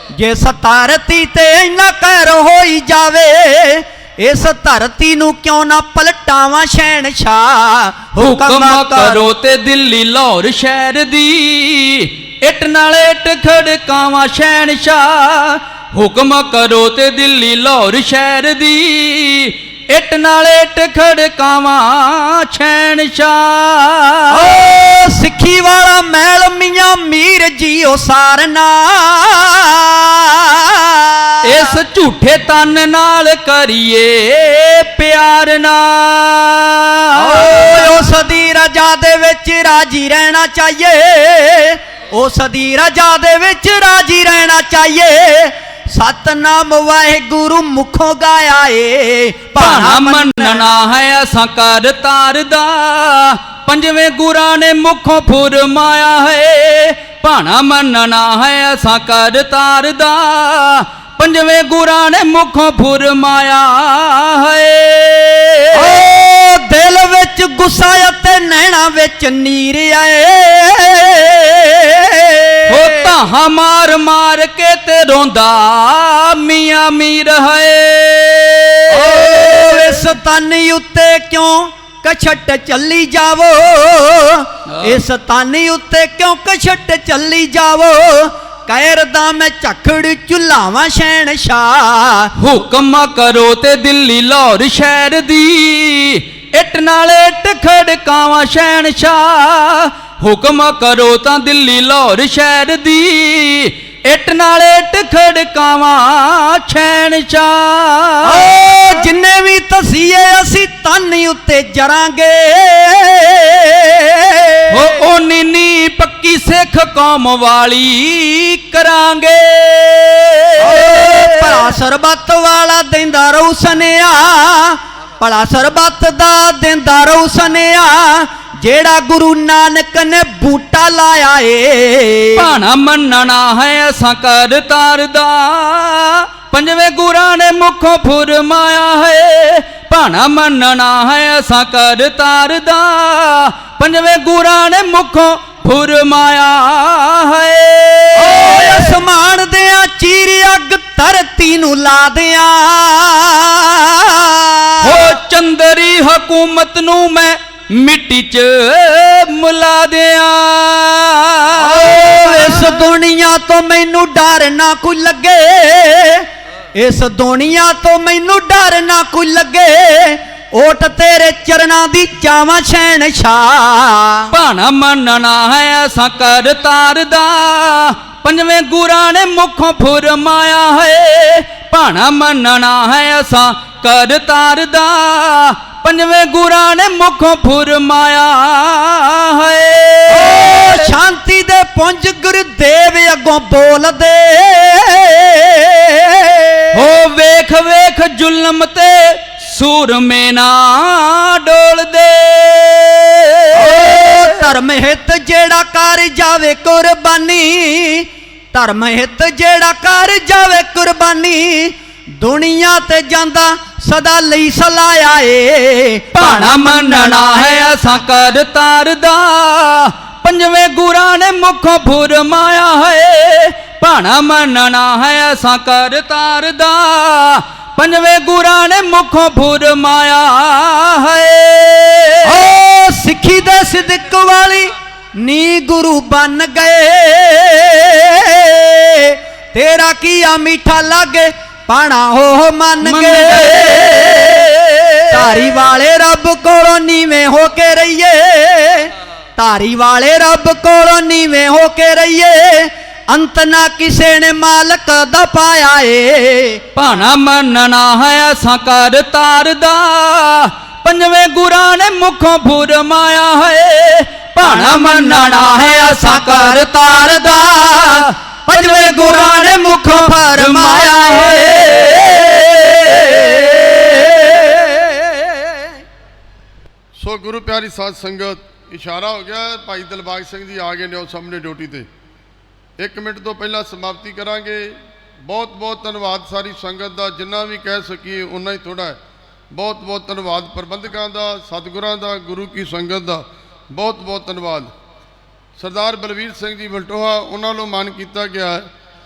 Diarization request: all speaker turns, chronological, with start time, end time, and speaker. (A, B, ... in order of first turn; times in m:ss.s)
0:00.1-0:09.3 A
0:08.2-0:24.6 B
0:24.3-0:31.8 A
0:31.4-0:38.1 B
0:37.2-0:50.7 A
0:49.6-1:05.9 B
1:05.7-1:12.8 A
1:12.7-1:20.2 B
1:18.9-1:32.3 A
1:24.7-1:25.0 B
1:32.4-1:49.1 B
1:48.2-1:54.8 A
1:54.7-2:01.7 B
2:00.6-2:12.5 A
2:12.4-2:29.0 B
2:28.2-2:35.1 A
2:34.8-2:42.9 B
2:41.6-2:54.3 A
2:54.3-3:10.9 B
3:10.1-3:16.8 A
3:16.7-3:24.4 B
3:23.6-3:37.6 A
3:36.1-3:52.3 B
3:52.2-4:04.4 A
4:02.8-4:05.2 B
4:05.1-4:16.6 A
4:16.8-4:34.1 B
4:24.5-4:35.4 A
4:37.0-4:41.9 C
4:42.8-4:49.0 C
4:49.5-4:54.7 C
4:55.6-4:58.7 C